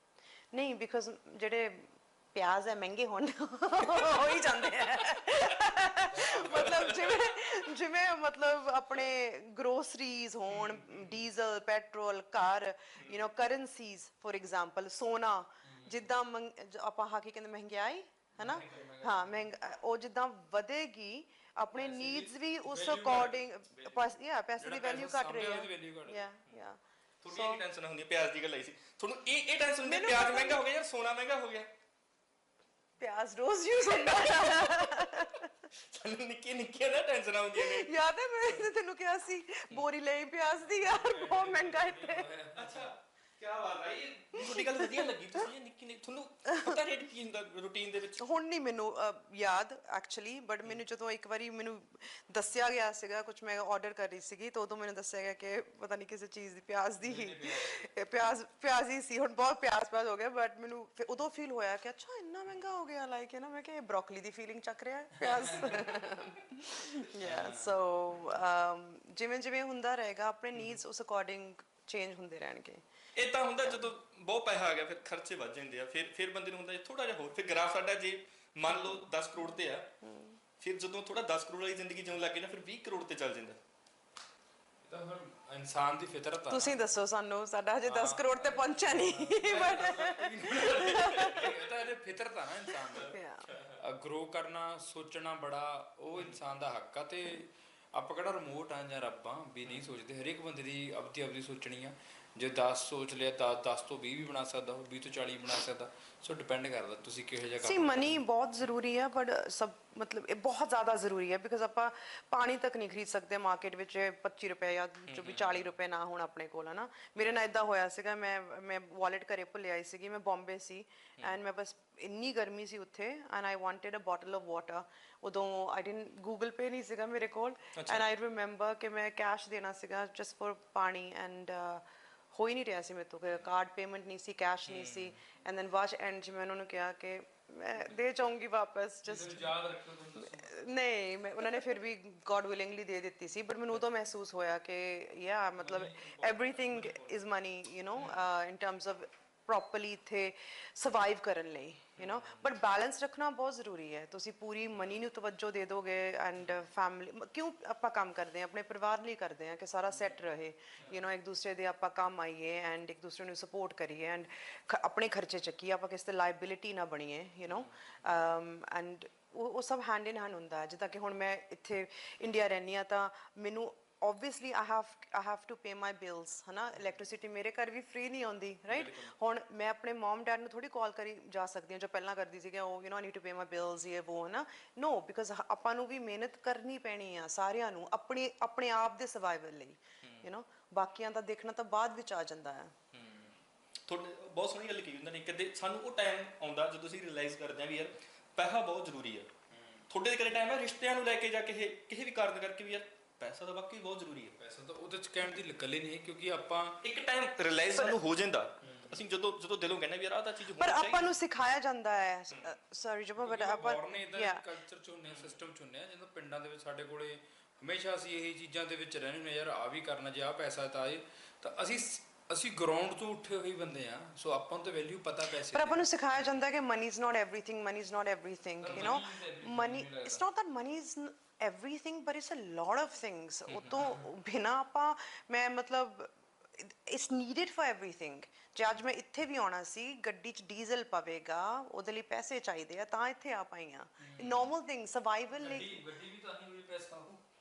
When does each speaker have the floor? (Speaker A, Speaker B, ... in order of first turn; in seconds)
Speaker A: 0.5-27.6, 29.8-30.6, 33.0-35.5, 37.5-42.3, 44.3-45.2, 46.5-46.8, 48.2-72.8, 73.6-73.9, 80.0-80.4, 86.5-91.5, 93.0-93.5, 107.6-139.5, 140.2-192.7, 210.5-214.4, 225.5-245.8
Speaker B: 6.1-7.1, 10.6-10.9, 15.6-16.1, 18.4-19.4, 21.7-23.4, 24.6-26.2, 40.6-42.9, 57.0-57.8, 65.2-66.0, 67.2-67.7, 84.8-86.8, 87.8-93.2, 93.7-108.2, 115.2-115.6, 139.0-140.6, 145.6-147.2, 199.5-199.8, 204.4-206.8, 208.6-209.0, 213.2-225.8, 228.6-230.2, 233.5-234.0, 244.0-244.5, 245.3-247.2
Speaker C: 6.2-6.5, 27.2-31.7, 34.0-34.7, 35.7-37.9, 42.5-48.2, 73.2-79.9, 80.6-83.6, 93.5-93.8, 127.8-128.0, 134.7-135.1, 152.0-152.4, 178.7-179.1, 190.0-190.3, 192.9-193.3, 193.9-199.3, 199.9-204.3, 206.8-211.1, 215.1-215.4